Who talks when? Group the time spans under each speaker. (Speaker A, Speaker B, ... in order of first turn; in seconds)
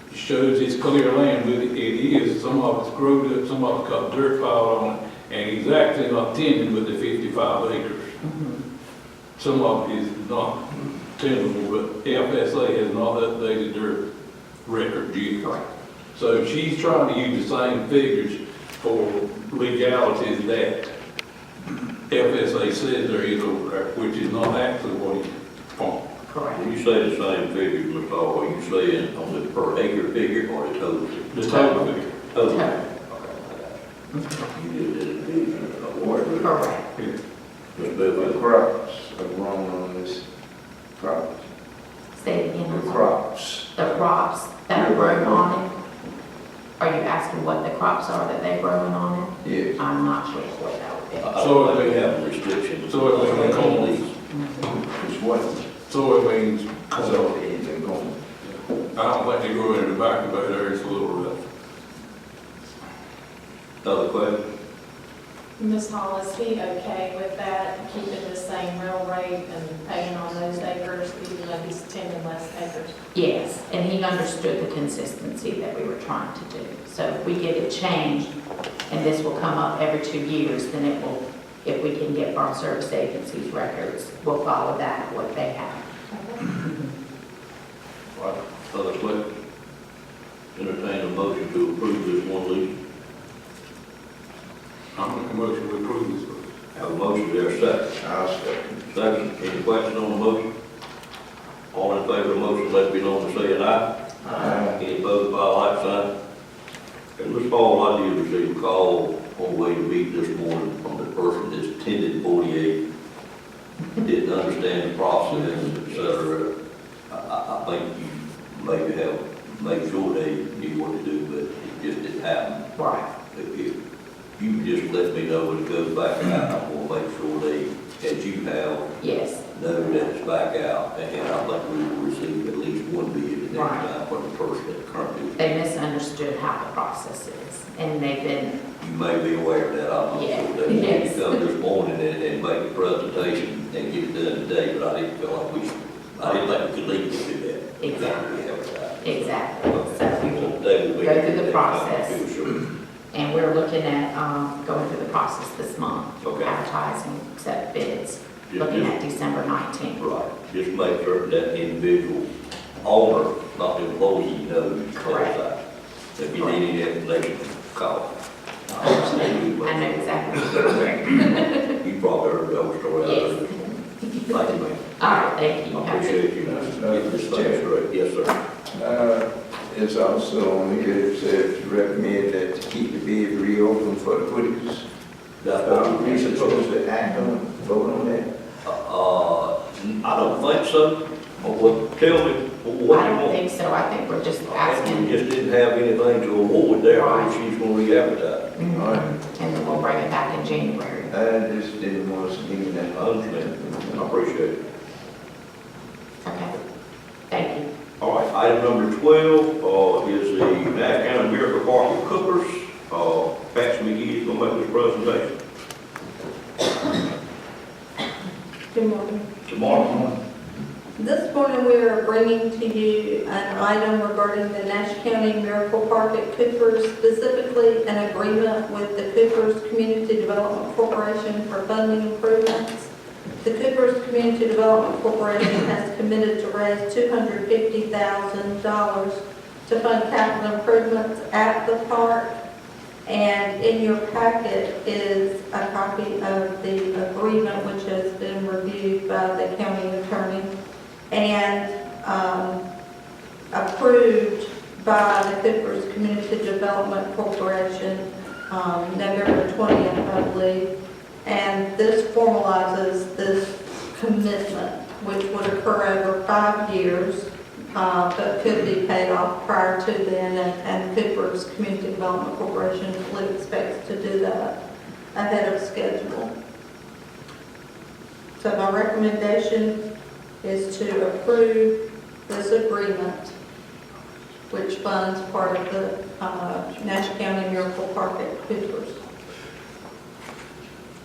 Speaker A: 0.1-8.2, 9.4-14.0, 14.7-15.5, 16.1-20.9, 22.1-26.0, 31.3-32.1, 51.4-52.0, 52.9-53.9, 55.9-57.3, 58.9-61.4, 94.9-96.5
Speaker B: 8.2-8.6, 15.4-15.7, 26.2-26.6, 31.5-31.9, 32.5-32.8, 34.1-34.5, 36.4-36.9, 42.2-43.1, 43.8-45.7, 46.8-51.4, 53.2-54.7, 73.2-78.3, 78.9-85.8, 86.5-86.9, 115.3-115.7, 122.8-123.1, 129.0-130.1, 133.5-133.9, 135.4-138.6, 140.1-141.4, 147.8-148.2, 149.0-152.2, 153.1-160.1, 164.9-165.4, 166.3-166.6, 168.7-171.8, 173.0-176.2, 192.9-195.2, 196.8-197.4, 198.6-201.1, 206.2-206.5, 207.3-207.7
Speaker C: 26.6-31.6, 32.3-33.8, 34.5-36.6, 37.8-38.4, 51.2-54.1, 63.8-64.4, 88.7-89.2, 90.5-92.7, 96.8-97.9, 98.9-100.5, 101.7-103.8, 104.4-106.1, 107.2-112.8, 114.0-116.5, 117.1-122.7, 123.3-123.7, 124.4-128.9, 129.5-135.5, 138.8-152.7, 156.2-156.6, 158.5-159.0, 160.0-162.3, 162.8-165.6, 166.2-168.1, 168.7-170.8, 171.8-173.5, 174.3-175.0, 175.7-178.4, 185.4-186.7, 188.7-193.4, 194.5-198.5, 202.9-204.6, 208.0-215.3, 219.5-220.1
Speaker D: 35.9-36.5, 38.1-40.2, 41.0-41.5, 42.6-43.9, 44.7-45.5, 49.4-49.8, 54.7-55.6, 57.0-58.2, 98.0-99.2, 104.3-104.8, 176.4-177.7, 178.7-184.9, 185.6-188.3, 198.7-199.1, 201.1-204.1
Speaker E: 65.6-72.9, 86.1-86.4
Speaker F: 218.7-219.9, 221.0-232.9, 233.4-242.3, 243.1-250.5, 251.1-252.6, 253.5-260.7, 261.2-274.6, 275.1-276.3, 278.4-279.8, 280.4-283.3, 284.5-289.0